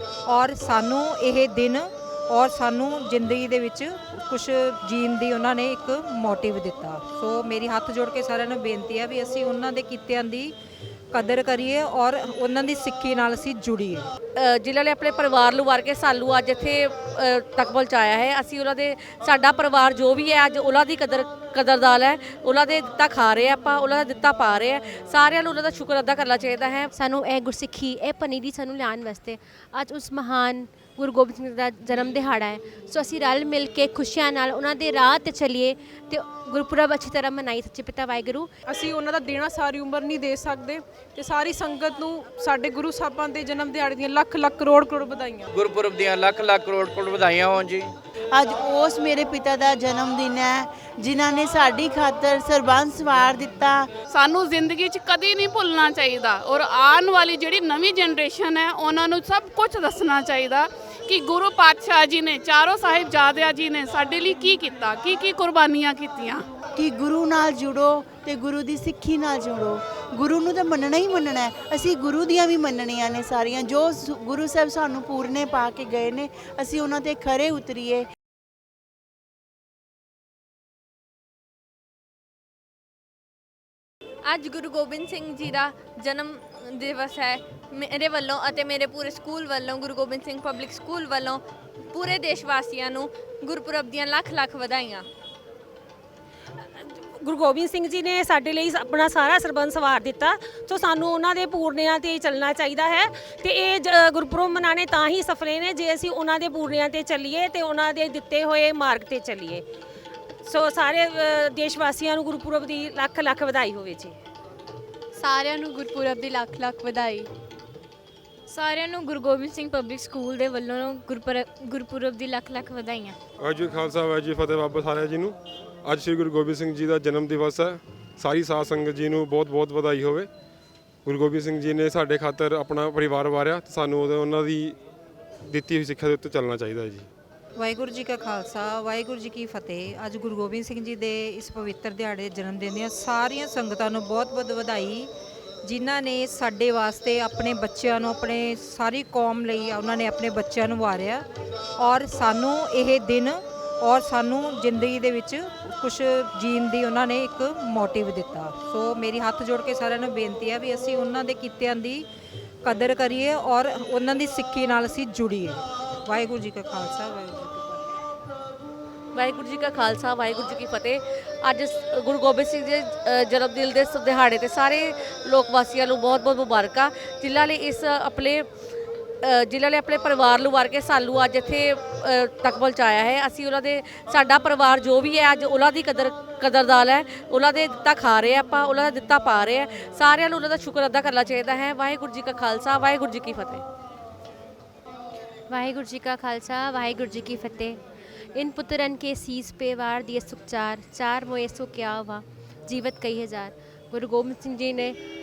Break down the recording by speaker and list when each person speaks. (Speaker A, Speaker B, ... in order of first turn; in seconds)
Speaker A: 0.3-10.5, 11.1-14.1, 137.6-145.1, 145.6-151.2, 151.8-162.1, 162.6-167.8
Speaker B: 14.3-26.9, 169.1-178.5, 179.2-193.6
Speaker C: 27.0-38.5, 195.5-197.8, 198.3-205.0
Speaker D: 38.7-45.3
Speaker E: 45.5-47.9
Speaker F: 48.3-53.9, 66.8-78.1
Speaker G: 54.1-66.4
Speaker H: 84.2-95.1, 115.2-117.3, 118.5-123.2
Speaker I: 97.2-109.6, 110.5-114.2
Speaker J: 123.4-130.3, 131.1-134.8, 135.5-137.1